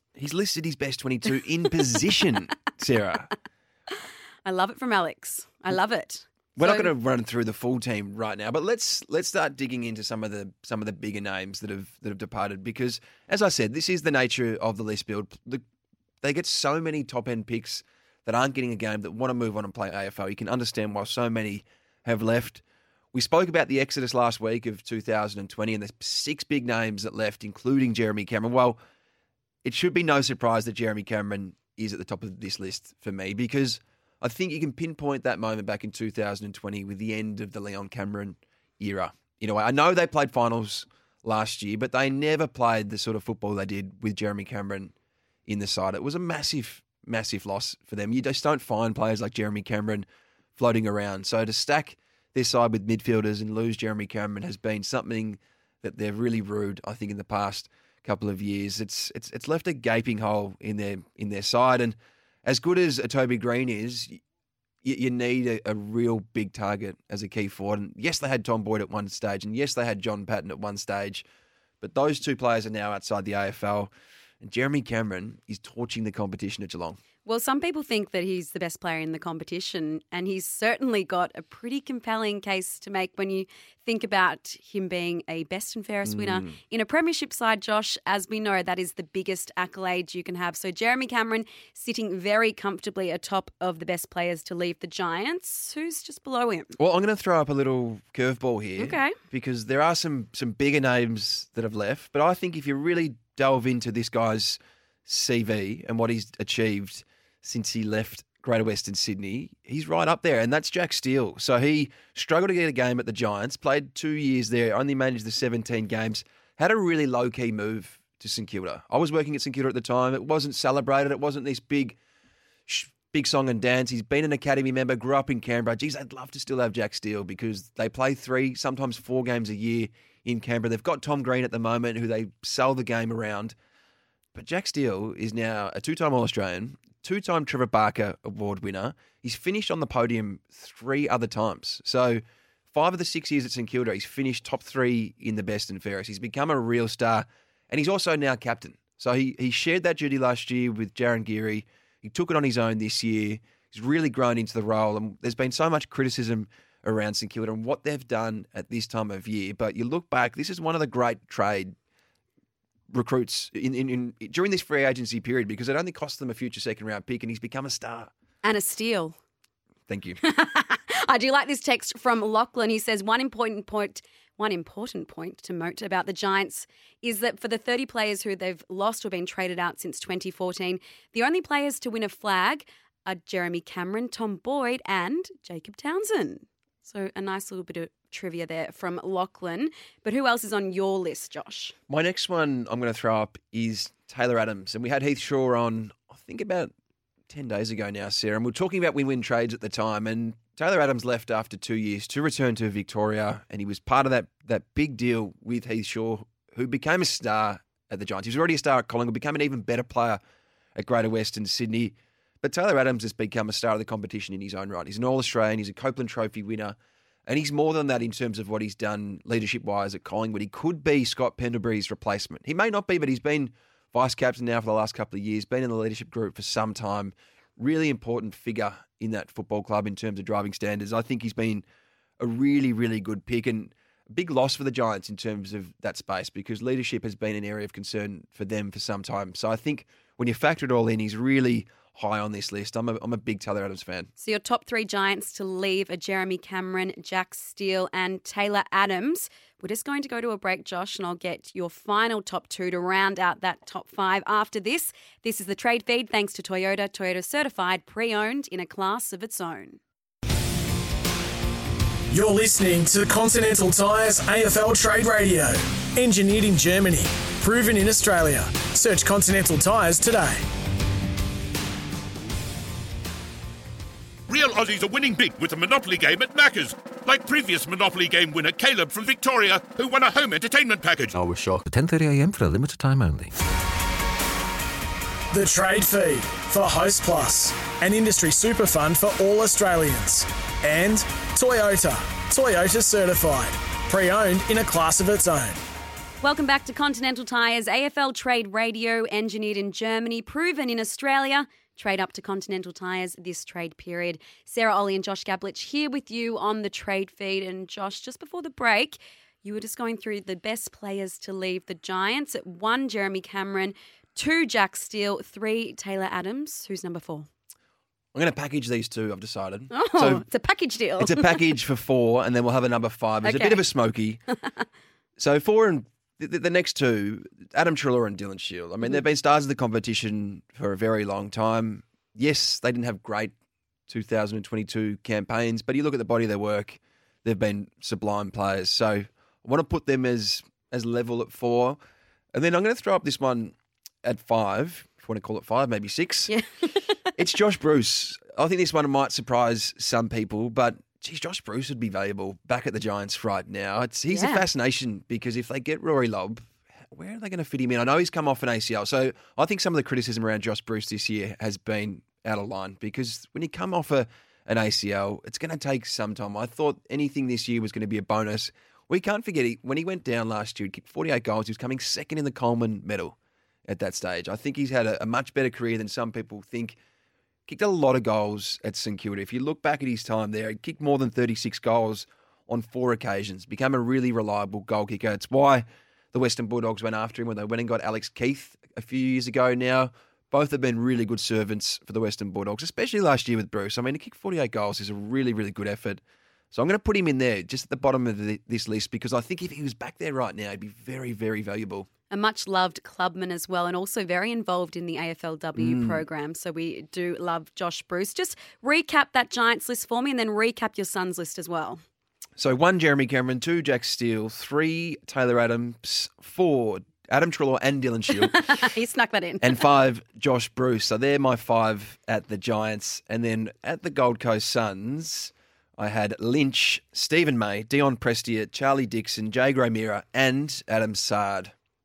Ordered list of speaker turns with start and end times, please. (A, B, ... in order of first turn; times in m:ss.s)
0:00.2-0:03.3 A
0:04.4-0:06.9 B
0:06.6-0:15.6 A
0:16.2-0:22.6 A
0:23.1-0:28.8 A
0:29.6-0:44.9 A
0:45.4-1:04.2 A
1:04.8-1:11.2 A
1:11.8-1:13.9 A
1:14.4-1:17.0 A
1:17.2-1:36.7 B
1:26.0-1:26.5 A
1:36.8-2:02.0 A
1:38.8-1:39.2 B
2:02.7-2:13.5 A
2:14.3-2:41.7 A
2:42.9-2:48.1 A
2:48.4-2:49.2 B
2:49.9-2:50.2 A
2:50.2-3:11.7 B
3:11.9-3:16.7 A
3:17.3-3:30.2 A
3:30.8-3:51.6 A
3:52.2-4:04.1 A
4:04.2-4:19.8 B
4:22.1-4:30.4 C
4:34.3-4:41.1 D
4:41.1-4:43.3 E
4:45.3-4:55.6 C
4:56.2-5:17.3 B
5:18.1-5:20.2 A
5:19.7-5:21.4 B
5:21.0-5:24.2 A
5:23.2-5:23.6 B
5:25.2-5:33.3 A
5:33.9-5:41.8 A
5:42.3-5:46.3 A
5:46.3-5:47.0 B
5:47.2-6:13.2 A
5:54.1-5:54.4 B
6:13.7-6:16.8 A
6:17.5-6:36.0 A
6:36.5-6:41.9 A
6:42.1-6:51.8 B
6:45.6-6:46.0 A
6:52.4-6:58.5 A
6:58.2-6:59.6 B
6:59.4-7:11.5 A